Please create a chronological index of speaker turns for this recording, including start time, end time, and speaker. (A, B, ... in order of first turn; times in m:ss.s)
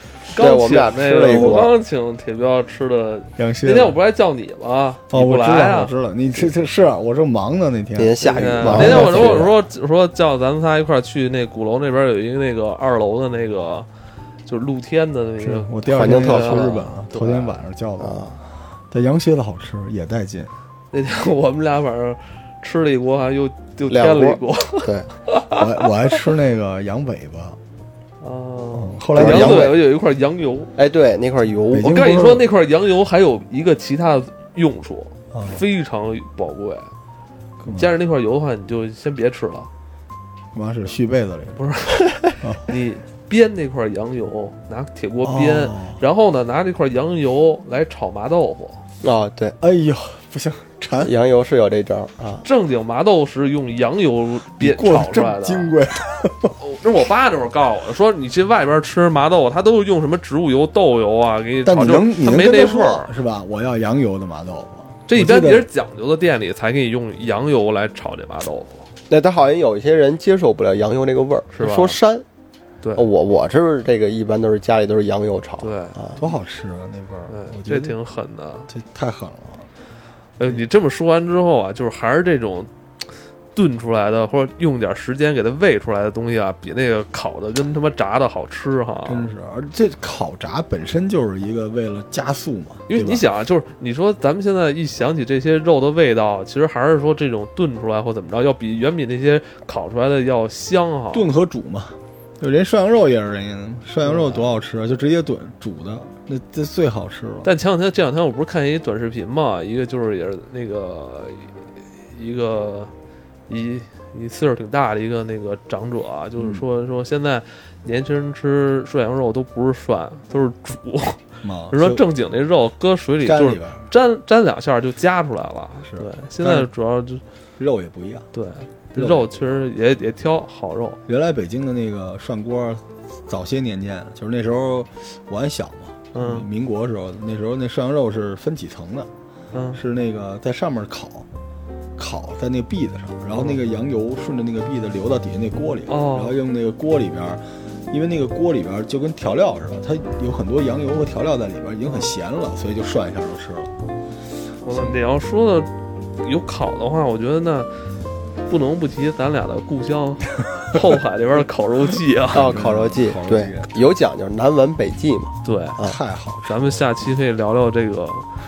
0:00.2-0:05.9 A
0:00.4-0:01.7 B
0:01.2-0:01.6 C
0:03.4-0:04.0 C
0:05.1-0:09.6 C
0:08.0-0:09.5 B
0:08.4-0:13.9 A
0:14.5-0:17.6 A
0:15.4-0:18.3 C
0:15.9-0:16.8 B
0:18.0-0:18.4 B
0:18.9-0:20.5 C
0:20.9-0:25.9 A
0:23.9-0:25.1 B
0:25.5-0:27.6 C
0:28.2-0:30.7 A
0:28.7-0:29.8 C
0:29.2-0:29.8 B
0:30.8-0:32.0 B
0:31.7-0:32.5 C
0:31.8-0:36.9 A
0:35.3-0:35.6 C
0:37.6-0:37.9 C
0:37.7-0:39.7 A
0:40.5-0:41.6 C
0:41.6-0:48.8 A
0:42.4-0:42.7 C
0:45.2-0:46.0 C
0:49.0-0:49.6 B
0:49.6-0:51.1 C
0:51.0-0:52.4 B
0:52.4-0:55.7 A
0:54.6-0:56.6 C
0:56.6-1:03.1 A
1:01.6-1:05.7 C
1:05.1-1:08.9 A
1:09.1-1:12.2 B
1:11.5-1:12.0 A
1:12.8-1:13.1 A
1:13.0-1:16.2 B
1:15.6-1:16.0 A
1:16.2-1:18.0 C
1:17.3-1:18.7 A
1:18.7-1:19.7 C
1:20.4-1:22.7 A
1:23.6-1:29.3 A
1:29.0-1:33.2 C
1:32.9-1:41.3 A
1:41.1-1:47.5 C
1:44.0-1:44.5 A
1:47.4-1:52.9 A
1:53.5-2:07.2 A
1:56.4-1:56.6 C
2:01.4-2:02.0 C
2:03.2-2:03.9 C
2:05.8-2:06.7 C
2:07.6-2:08.3 C
2:08.3-2:11.0 A
2:09.0-2:09.3 C
2:11.1-2:19.1 C
2:16.2-2:16.5 A
2:19.5-2:19.8 A
2:19.7-2:21.3 C
2:22.0-2:33.7 C
2:25.9-2:26.4 A
2:34.6-2:37.7 A
2:38.5-2:42.5 A
2:42.3-2:43.7 C
2:42.3-2:46.0 B
2:45.4-2:45.8 A
2:45.8-2:46.9 C
2:46.4-2:48.3 A